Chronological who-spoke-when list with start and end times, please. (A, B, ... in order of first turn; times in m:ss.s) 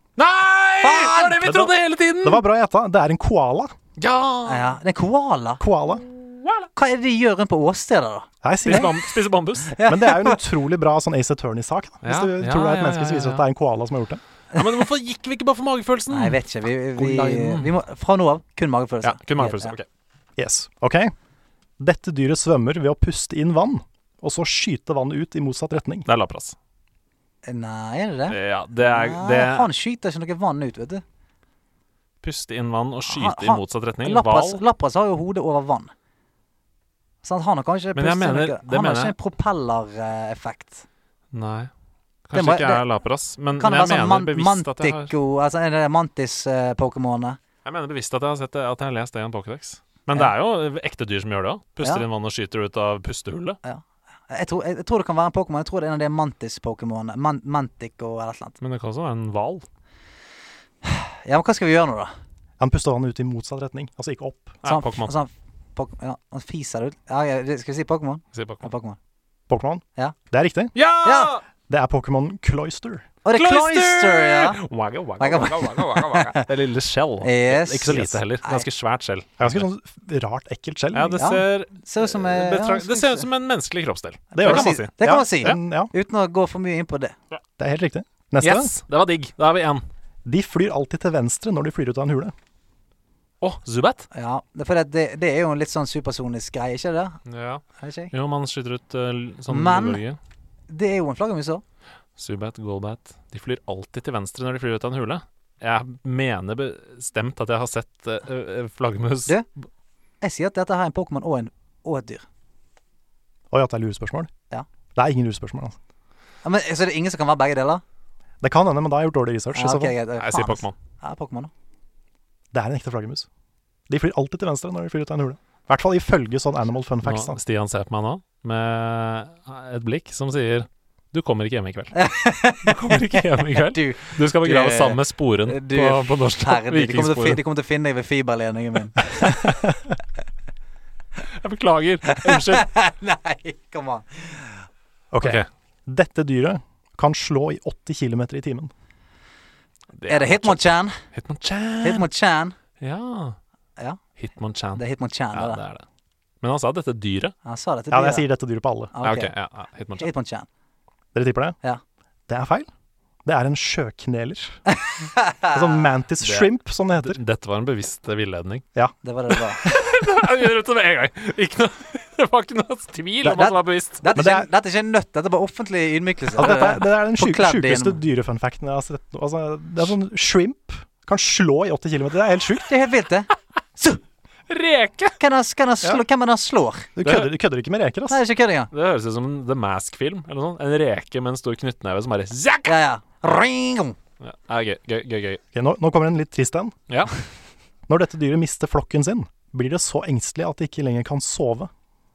0:00.2-0:02.4 A
0:00.8-0:01.4 B
0:01.4-0:03.7 C
0:04.0-0:04.8 A
0:04.5-0:05.6 B
0:05.6-0:06.0 C
0:06.2-0:06.7 A
0:06.8-0:08.3 B
0:08.4-0:09.0 C
0:08.6-0:09.8 A
0:09.7-0:10.4 B
0:09.8-0:14.2 C
0:12.0-0:13.5 A
0:14.6-0:16.4 A
0:16.1-0:19.8 B
0:17.0-0:17.7 A
0:19.0-0:19.9 A
0:20.4-0:21.1 C
0:21.8-0:26.1 C
0:26.1-0:26.6 A
0:27.4-0:31.0 B
0:28.3-0:29.7 A
0:32.2-0:34.6 A
0:33.1-0:35.9 B
0:37.2-0:40.8 B
0:38.0-0:39.2 A
0:41.3-0:41.7 A
0:42.3-0:45.1 A
0:42.3-0:42.8 B
0:43.6-0:47.4 B
0:47.6-0:53.6 A
0:53.6-0:58.6 B
0:58.6-0:59.7 A
1:00.8-1:02.1 B
1:02.6-1:04.6 C
1:04.6-1:05.1 A
1:04.6-1:09.0 B
1:08.3-1:08.7 A
1:09.5-1:10.8 C
1:10.8-1:11.4 A
1:11.0-1:11.4 B
1:11.7-1:13.1 C
1:13.2-1:14.6 B
1:13.3-1:19.6 A
1:15.2-1:16.5 B
1:17.2-1:18.7 B
1:17.9-1:18.2 C
1:19.4-1:21.2 C
1:20.9-1:25.6 A
1:21.2-1:23.3 B
1:24.3-1:25.9 C
1:24.4-1:27.2 B
1:27.6-1:28.7 C
1:28.4-1:29.8 A
1:30.2-1:32.3 C
1:33.4-1:34.1 A
1:34.1-1:37.2 B
1:37.3-1:40.2 A
1:37.8-1:38.1 B
1:39.5-1:40.0 B
1:40.7-1:41.6 B
1:42.2-1:49.4 A
1:50.2-1:52.2 B
1:53.5-1:54.3 C
1:55.0-1:55.8 C
1:56.4-1:57.8 B
1:58.4-2:00.0 C
1:59.5-2:01.5 B
2:00.2-2:00.8 A
2:02.5-2:03.3 C
2:03.9-2:07.4 C
2:07.0-2:12.0 A
2:11.9-2:19.4 B
2:12.6-2:17.4 A
2:21.2-2:22.7 A
2:22.1-2:24.6 B
2:25.1-2:28.7 C
2:25.2-2:25.5 A
2:29.9-2:32.1 A
2:30.1-2:31.0 B
2:31.8-2:32.6 B
2:32.8-2:33.4 A
2:34.2-2:35.8 A
2:34.8-2:35.6 B
2:36.4-2:37.4 A
2:37.4-2:38.3 B
2:37.9-2:38.9 C
2:38.9-2:39.3 B
2:39.0-2:40.1 A
2:40.0-2:40.5 B
2:41.1-2:41.6 C
2:42.3-2:42.7 C
2:43.2-2:44.6 C
2:44.7-2:45.8 B
2:45.5-2:47.2 C
2:46.2-2:48.6 A
2:49.0-2:49.6 B
2:49.6-2:54.0 A
2:53.2-2:58.0 B
2:54.1-2:54.5 C
2:56.4-3:02.7 C
3:02.7-3:04.0 B
3:04.5-3:05.2 A
3:05.2-3:06.9 B
3:07.0-3:08.2 C
3:07.0-3:07.3 A
3:08.1-3:08.7 B
3:08.7-3:12.8 A
3:12.6-3:14.0 B
3:14.2-3:15.4 A
3:15.5-3:16.8 C
3:17.9-3:21.7 C